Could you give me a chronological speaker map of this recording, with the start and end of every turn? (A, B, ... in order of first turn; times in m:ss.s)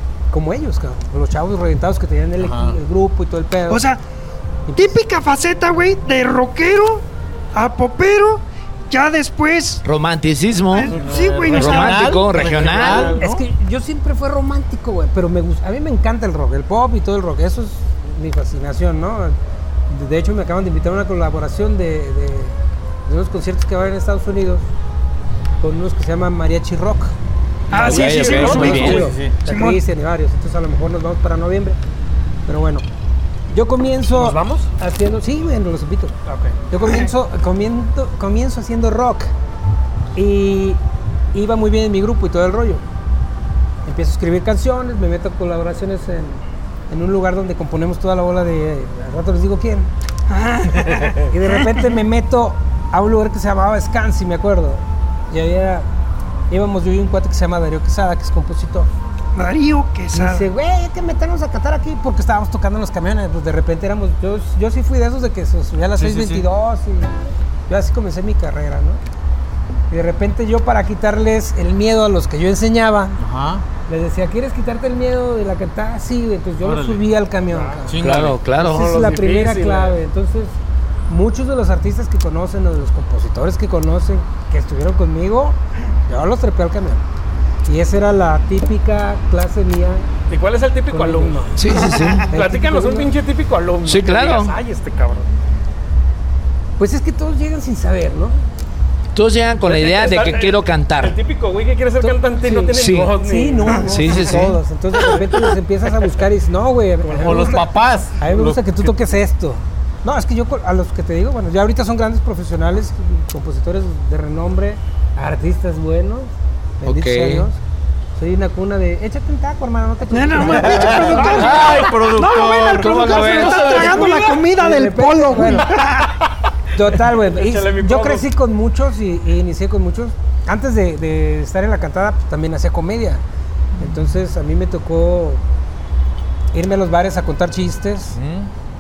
0:00.3-0:03.8 A
0:02.4-0:02.8 B
0:03.7-0:04.0 C
0:04.7-0:05.0 A
0:04.8-0:09.8 C
0:09.8-0:10.9 D
0:10.7-0:12.2 C
0:10.9-0:13.2 B
0:11.5-0:13.2 D
0:12.3-0:13.4 E
0:13.2-0:19.4 A
0:19.9-0:22.6 A
0:23.1-0:24.7 A
0:25.6-0:27.1 A
0:27.7-0:29.8 C
0:27.7-0:29.1 E
0:27.7-0:29.0 D
0:28.1-0:29.4 B
0:28.2-0:31.8 A
0:32.5-0:32.8 A
0:33.5-0:36.1 A
0:34.1-0:34.7 E
0:36.2-0:36.6 E
0:36.7-0:39.3 A
0:40.1-0:40.8 A
0:41.3-0:42.8 A
0:43.8-0:49.9 A
0:50.3-0:51.9 C
0:51.2-0:55.9 A
0:56.5-0:58.9 A
0:59.3-1:00.5 C
1:00.1-1:07.1 A
1:06.0-1:06.5 B
1:07.7-1:09.0 A
1:09.9-1:13.2 A
1:13.2-1:13.6 B
1:13.9-1:18.0 A
1:16.6-1:17.1 B
1:17.5-1:17.8 E
1:17.9-1:18.4 B
1:18.0-1:18.9 D
1:18.6-1:20.5 A
1:18.6-1:20.0 E
1:21.1-1:25.6 A
1:26.1-1:27.0 A
1:27.6-1:30.1 A
1:30.3-1:31.6 E
1:30.9-1:31.4 A
1:31.6-1:32.3 D
1:31.7-1:32.2 C
1:32.3-1:33.1 A
1:32.3-1:35.3 E
1:33.8-1:34.5 D
1:36.8-1:38.4 A
1:39.1-1:41.2 D
1:39.6-1:43.8 E
1:42.0-1:47.6 A
1:42.7-1:43.1 D
1:43.8-1:44.6 D
1:47.1-1:47.6 E
1:47.1-1:48.9 B
1:48.2-1:56.3 A
1:56.8-1:57.6 A
1:56.8-1:57.5 D
1:58.2-2:01.8 A
2:00.1-2:06.1 C
2:00.5-2:03.5 B
2:01.2-2:02.0 E
2:02.7-2:04.1 D
2:03.1-2:04.4 E
2:03.7-2:05.7 A
2:06.7-2:13.2 A
2:07.1-2:08.2 E
2:13.8-2:15.4 A
2:16.5-2:18.2 A
2:18.1-2:18.5 B